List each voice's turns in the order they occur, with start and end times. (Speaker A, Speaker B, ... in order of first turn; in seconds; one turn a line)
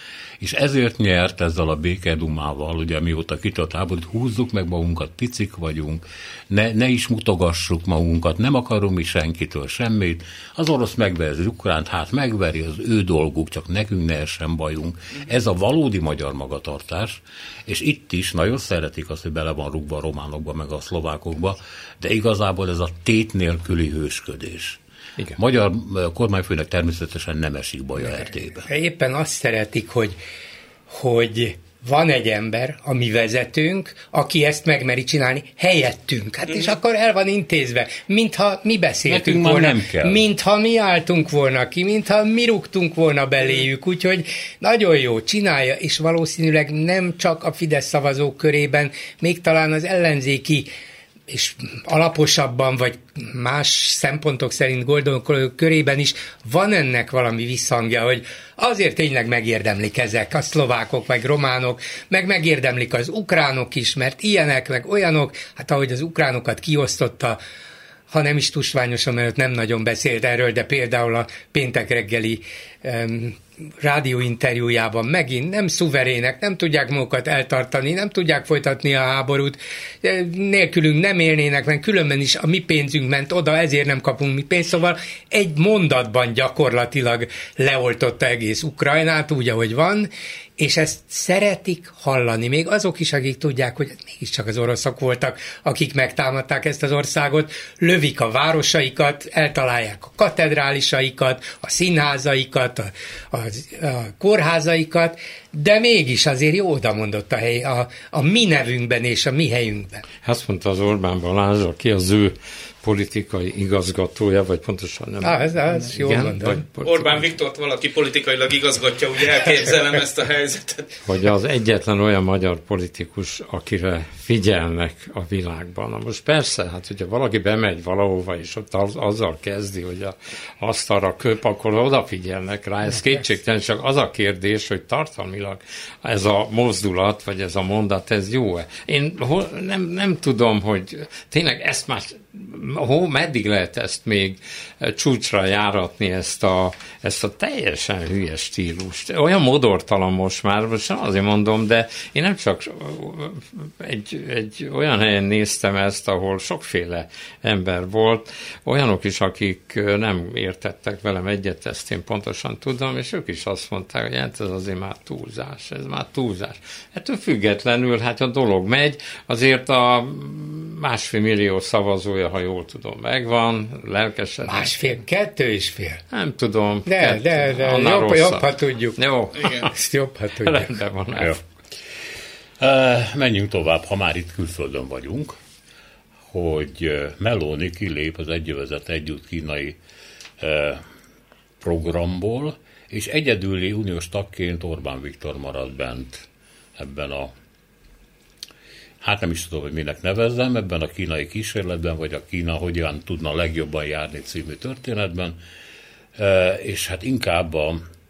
Speaker A: 0.4-24.8
Speaker A: 25.4-28.7
Speaker B: 28.6-30.2
Speaker B: 30.9-50.7
Speaker A: 39.1-40.2
Speaker B: 51.3-67.4
Speaker B: 68.1-110.0
Speaker C: 110.2-117.2
Speaker B: 115.2-116.6
Speaker D: 116.8-120.9
Speaker C: 121.0-174.9
Speaker B: 174.5-176.0
Speaker C: 176.1-179.7
Speaker B: 176.9-180.8
Speaker D: 179.4-179.7
Speaker C: 180.4-181.4
Speaker A: 182.6-185.4
Speaker A: 186.3-189.8
Speaker A: 190.4-190.8
Speaker A: 191.6-196.3
Speaker A: 196.8-197.3
Speaker A: 199.0-205.4
Speaker A: 206.2-207.8